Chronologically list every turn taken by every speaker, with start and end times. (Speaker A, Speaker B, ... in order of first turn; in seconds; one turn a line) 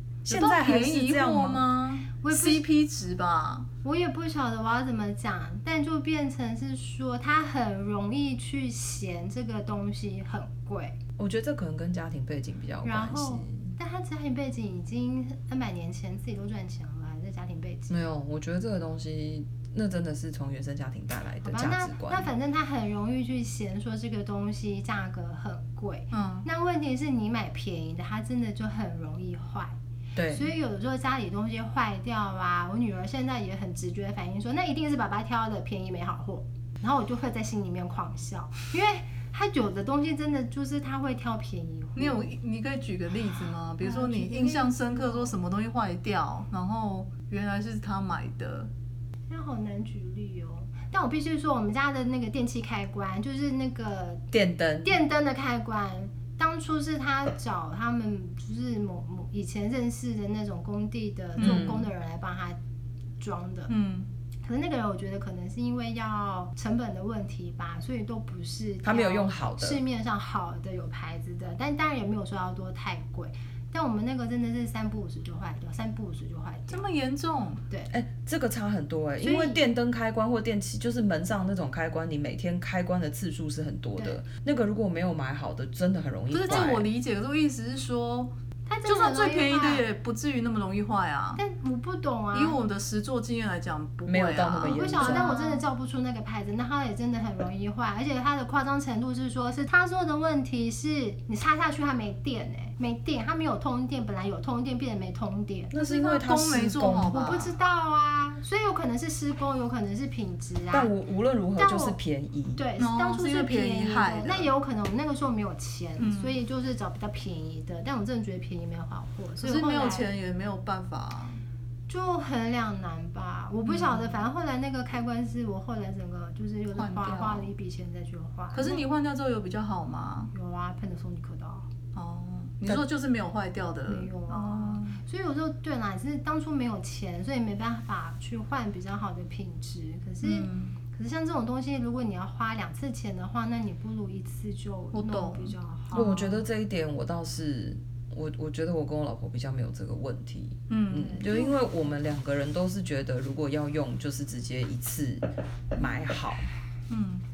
Speaker A: 0.2-1.6
Speaker B: 0.3-3.7
Speaker C: 2.2-2.6
Speaker C: 3.8-11.0
Speaker A: 11.2-13.7
Speaker C: 12.8-18.0
Speaker A: 17.9-22.3
Speaker C: 21.4-29.7
Speaker B: 26.1-26.5
Speaker A: 30.2-30.5
Speaker C: 30.3-42.2
Speaker B: 42.0-48.7
Speaker C: 43.8-45.3
Speaker C: 49.3-54.2
Speaker A: 54.3-55.0
Speaker C: 54.8-62.6
Speaker B: 61.4-61.6
Speaker A: 61.4-61.9
Speaker C: 63.2-63.7
Speaker B: 63.7-64.1
Speaker C: 64.4-76.8
Speaker A: 68.8-69.8
Speaker B: 76.7-77.6
Speaker A: 77.9-86.9
Speaker C: 79.2-79.6
Speaker B: 86.3-88.3
Speaker C: 88.7-89.9
Speaker B: 88.9-91.4
Speaker C: 91.4-92.6
Speaker B: 92.3-95.6
Speaker A: 94.1-95.3
Speaker C: 94.6-106.2
Speaker A: 105.7-107.2
Speaker B: 106.2-107.6
Speaker C: 107.1-110.9
Speaker A: 110.7-112.6
Speaker C: 111.6-112.0
Speaker C: 112.6-120.1
Speaker B: 112.8-114.5
Speaker B: 116.0-116.4
Speaker B: 119.4-121.4
Speaker C: 121.9-128.8
Speaker B: 123.7-124.2
Speaker B: 126.7-127.5
Speaker B: 128.5-130.3
Speaker C: 130.3-131.7
Speaker B: 131.9-135.0
Speaker C: 133.9-146.4
Speaker B: 140.2-140.8
Speaker B: 144.9-146.0
Speaker A: 145.9-156.5
Speaker B: 150.7-151.3
Speaker C: 151.0-151.5
Speaker B: 156.9-157.2